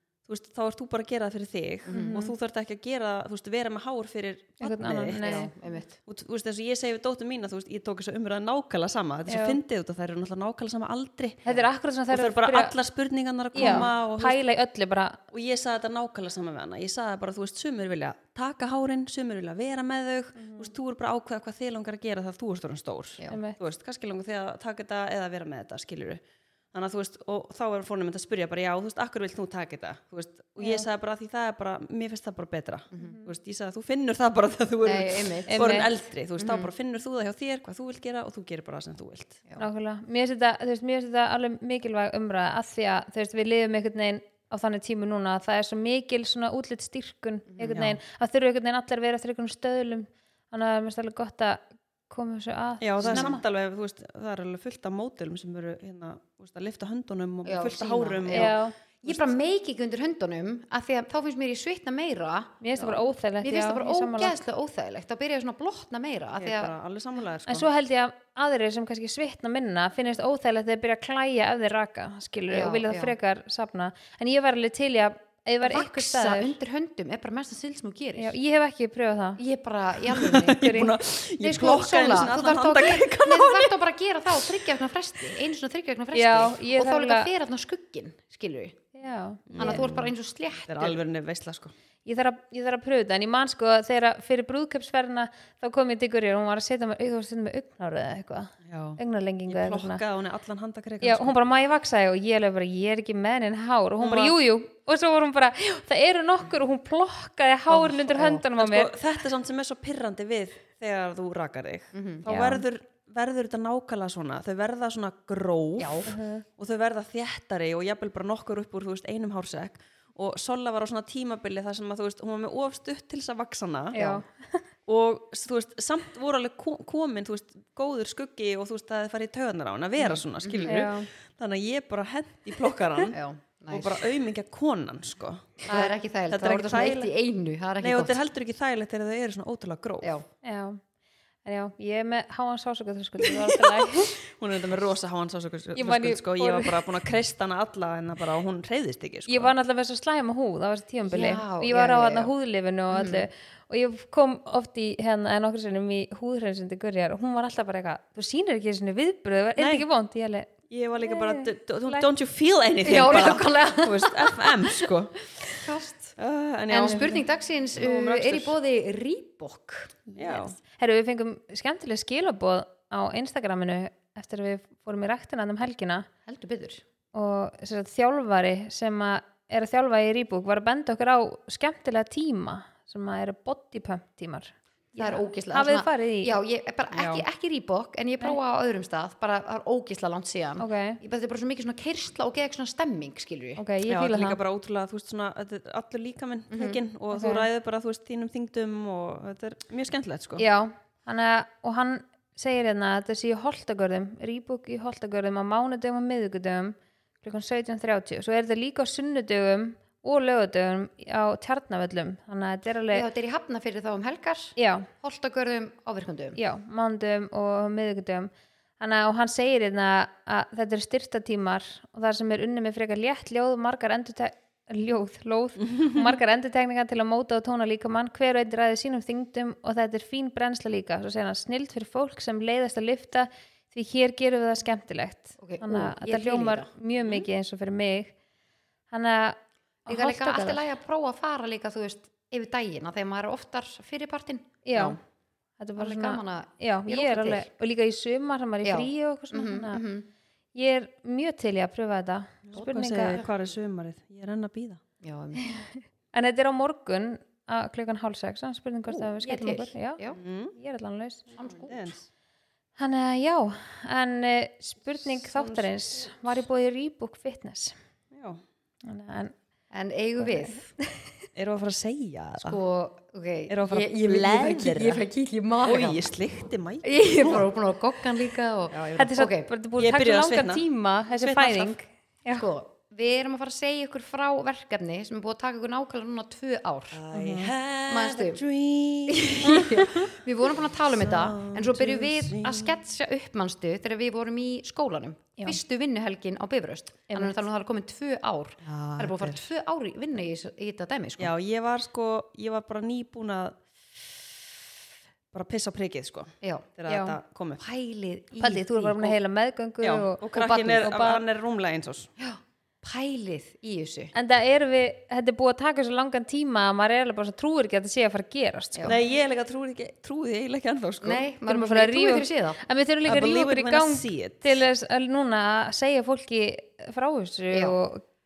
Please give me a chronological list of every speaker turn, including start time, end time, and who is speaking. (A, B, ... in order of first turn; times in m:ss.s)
0:00.2-0:05.4 A
0:01.9-0:02.2 B
0:01.9-0:02.3 C
0:04.6-0:05.5 C
0:05.2-0:06.0 B
0:06.0-0:11.4 A
0:09.3-0:09.6 C
0:11.4-0:12.7 C
0:12.1-0:14.4 A
0:13.5-0:15.2 C
0:13.6-0:13.9 B
0:15.3-0:39.4 A
0:20.4-0:20.7 C
0:23.3-0:23.6 C
0:32.9-0:33.2 B
0:33.0-0:33.2 C
0:34.8-0:35.8 B
0:35.5-0:35.9 C
0:36.4-0:36.7 B
0:39.6-0:53.4 C
0:47.5-0:47.8 B
0:47.7-0:48.0 A
0:52.8-0:59.3 A
0:53.0-0:53.3 B
0:57.4-1:02.6 B
0:58.3-0:58.7 C
1:02.6-1:04.4 C
1:03.4-1:06.7 B
1:06.4-1:07.7 A
1:07.5-1:16.5 C
1:12.5-1:13.1 B
1:15.6-1:18.3 B
1:18.2-1:19.4 C
1:19.4-1:20.8 B
1:20.0-1:23.8 A
1:20.6-1:20.9 C
1:21.4-1:28.8 B
1:24.3-1:24.7 A
1:26.1-1:27.3 C
1:28.9-1:29.8 C
1:29.5-1:30.1 A
1:29.6-1:31.0 B
1:30.7-1:31.7 A
1:32.0-1:40.0 C
1:38.6-1:41.4 A
1:41.0-1:48.9 C
1:44.0-1:44.4 A
1:47.7-1:48.4 B
1:48.6-2:04.0 A
1:51.9-1:52.3 B
1:52.2-1:52.6 C
1:55.8-1:56.1 B
1:56.0-1:56.4 C
2:03.9-2:04.6 C
2:04.0-2:04.2 B
2:04.8-2:13.2 A
2:10.0-2:10.8 B
2:10.6-2:11.1 C
2:13.1-2:14.1 B
2:13.7-2:17.1 A
2:15.6-2:18.2 B
2:17.8-2:20.1 A
2:20.4-2:20.8 C
2:21.4-2:24.1 C
2:23.5-2:29.5 A
2:25.7-2:26.8 C
2:29.3-2:42.0 C
2:31.1-2:32.3 B
2:32.9-2:33.3 B
2:39.6-2:39.9 A
2:40.7-2:45.2 A
2:42.8-2:44.9 B
2:45.5-2:46.2 B
2:46.2-2:47.2 A
2:46.7-2:50.0 B
2:46.8-2:47.2 C
2:47.8-2:48.6 A
2:50.1-2:56.1 C
2:50.2-2:50.6 A
2:56.2-2:56.8 B
2:57.1-3:06.4 C
3:05.0-3:13.6 B
3:10.6-3:11.0 C
3:13.6-3:14.4 C
3:13.9-3:20.4 A
3:16.5-3:16.8 B
3:17.1-3:17.5 C
3:20.4-3:33.0 C
3:32.9-3:36.4 B
3:34.6-3:34.9 C
3:36.4-3:58.1 C
3:45.7-3:46.2 A
3:55.4-3:56.7 B
3:57.0-3:57.3 A
3:58.9-4:00.6 C
3:59.9-4:05.0 B
4:04.6-4:05.0 C
4:05.6-4:09.8 C
4:05.8-4:07.5 B
4:08.6-4:10.1 B
4:10.5-4:13.2 C
4:12.5-4:14.8 A
4:12.6-4:13.3 B
4:15.0-4:15.5 B
4:15.4-4:20.0 C
4:18.9-4:20.2 B
4:20.1-4:20.5 A
4:20.5-4:21.3 C
4:21.4-4:21.8 B
4:21.6-4:22.1 A
4:22.8-4:27.7 C
4:25.2-4:25.7 A
4:28.1-4:28.4 A
4:28.8-4:29.3 C
4:29.7-4:30.7 B
4:30.2-4:31.0 C
4:31.3-4:32.6 A
4:32.4-4:36.1 B
4:33.5-4:35.0 A
4:35.6-4:37.5 A
4:36.8-4:39.5 B
4:38.7-4:39.1 A
4:39.0-4:42.4 C
4:39.8-4:41.7 A
4:42.3-4:48.4 B
4:46.9-4:50.0 A
4:49.1-5:01.3 B
4:50.6-4:52.8 A
4:57.1-4:57.4 C
4:58.6-4:59.4 A
5:01.2-5:04.2 A
5:05.3-5:07.6 A
5:06.4-5:06.7 B
5:06.9-5:07.2 C
5:07.6-5:09.1 B
5:08.4-5:11.2 C
5:09.8-5:12.1 A
5:10.4-5:10.9 B
5:12.2-5:14.1 B
5:14.1-5:19.0 C
5:18.8-5:21.2 A
5:21.0-5:22.6 B
5:21.4-5:28.0 C
5:23.0-5:24.6 A
5:27.5-5:27.8 B